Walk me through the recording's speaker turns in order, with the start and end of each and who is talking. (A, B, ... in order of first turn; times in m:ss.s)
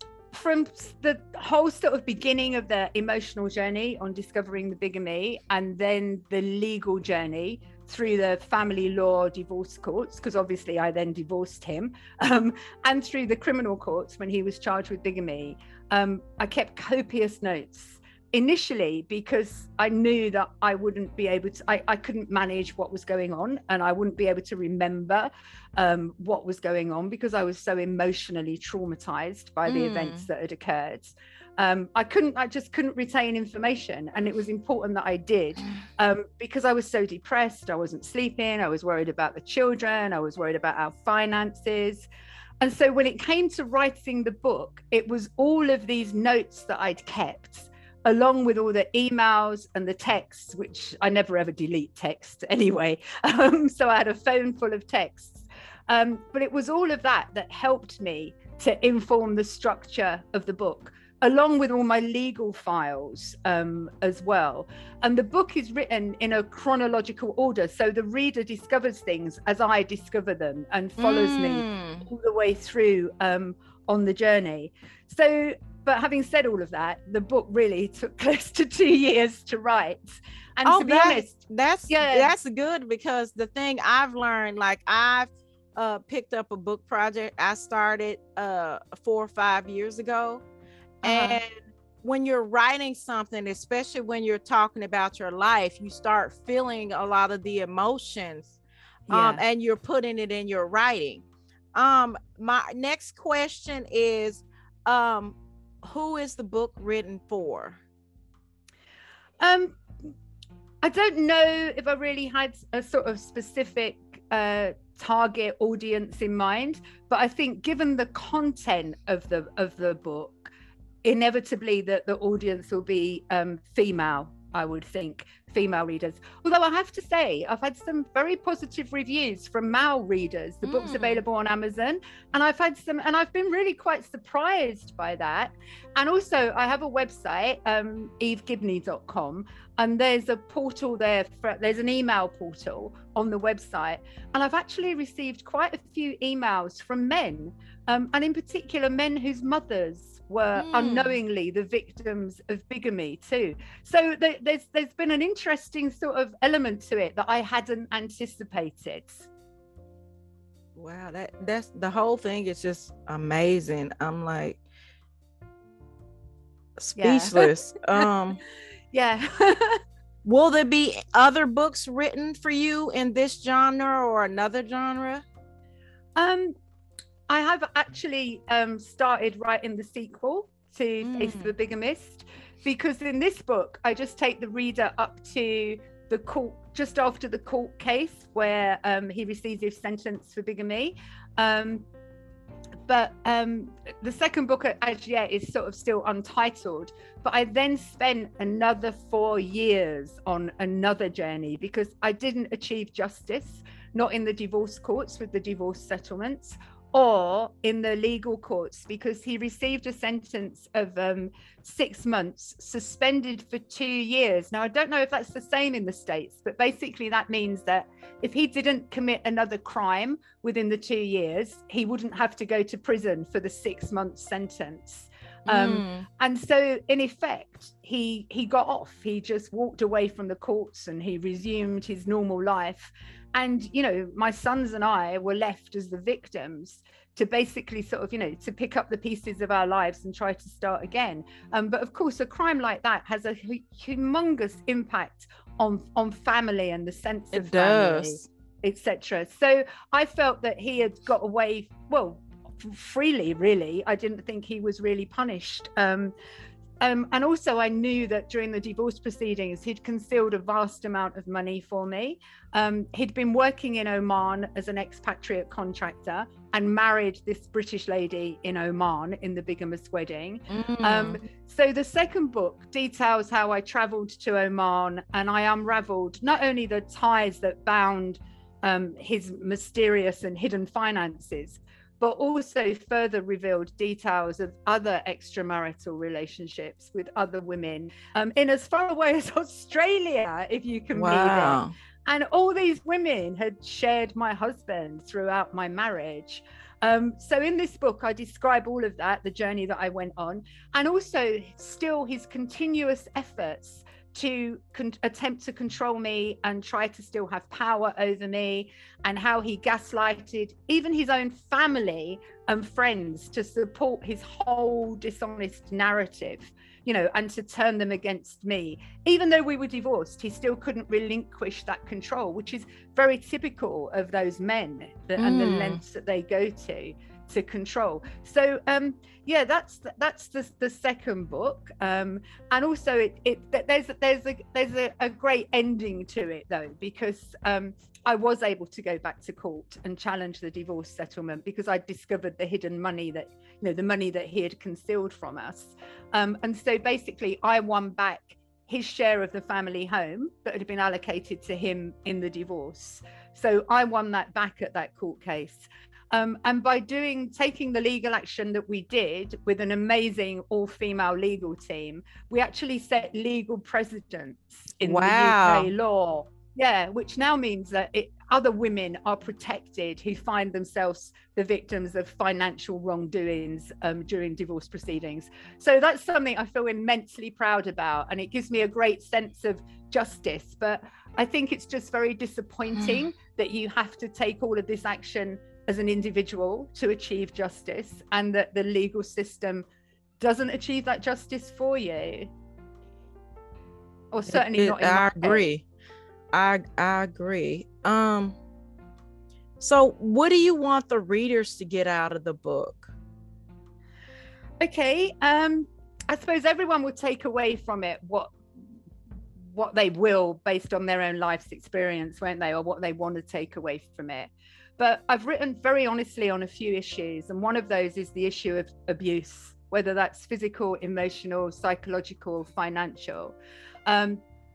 0:00.3-0:42.1 A
0:29.6-0:30.3 B
0:42.6-1:21.4 A
1:11.0-1:12.0 B
1:20.6-1:30.4 B
1:21.9-1:22.3 A
1:31.0-1:31.5 B
1:31.0-1:31.4 A
1:32.0-1:38.6 B
1:39.1-1:39.4 A
1:39.1-1:47.8 B
1:49.4-1:49.8 A
1:50.8-2:00.5 A
2:01.0-2:39.3 A
2:10.6-2:11.2 B
2:30.5-2:31.2 B
2:40.8-2:44.6 B
2:46.8-2:48.4 B
2:47.0-2:48.0 A
2:48.9-2:49.8 A
2:50.2-2:55.2 B
2:56.2-2:56.5 A
2:57.3-3:11.8 A
3:01.0-3:01.5 B
3:12.9-4:16.1 A
3:45.5-3:46.0 B
4:07.3-4:08.3 B
4:16.8-6:29.6 A
4:30.5-4:31.2 B
4:50.9-4:51.7 B
5:25.2-5:25.8 B
6:04.8-6:05.7 B
6:30.2-6:32.3 A
6:34.1-6:35.4 A
6:34.3-6:35.6 B
6:36.3-6:38.4 B
6:39.6-6:42.9 B
6:44.6-6:48.3 A
6:49.4-7:03.3 A
7:03.8-7:04.2 A